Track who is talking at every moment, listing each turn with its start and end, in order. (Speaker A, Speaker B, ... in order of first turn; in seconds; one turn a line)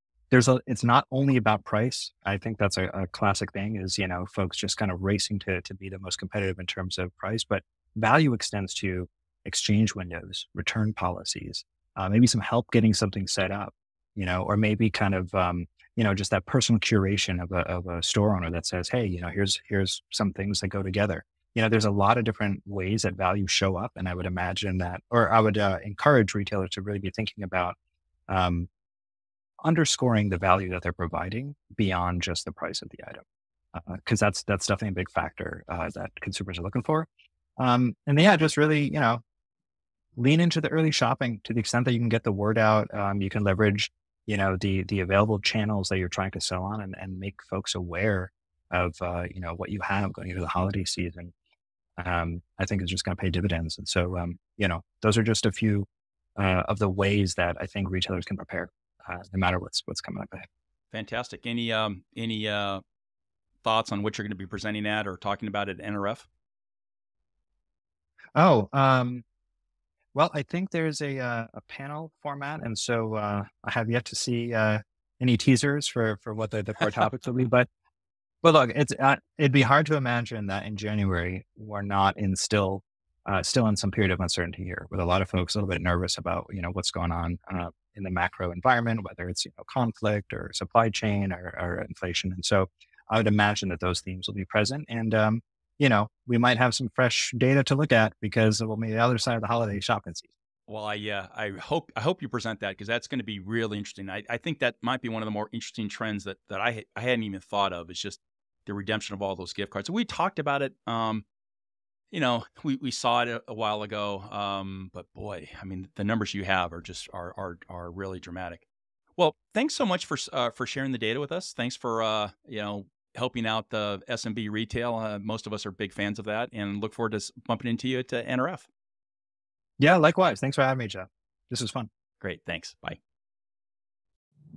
Speaker A: 0.3-27.8
Speaker A: 28.3-28.7
Speaker A: 29.6-33.2
Speaker A: 33.7-39.2
Speaker A: 40.1-51.3
Speaker A: 52.0-60.5
Speaker B: 60.9-62.8
Speaker B: 63.6-66.3
Speaker A: 68.3-69.2
Speaker A: 70.1-77.7
Speaker A: 78.4-100.3
Speaker B: 100.7-111.2
Speaker B: 112.1-118.6
Speaker B: 119.2-128.7
Speaker A: 129.8-131.9
Speaker B: 132.2-133.0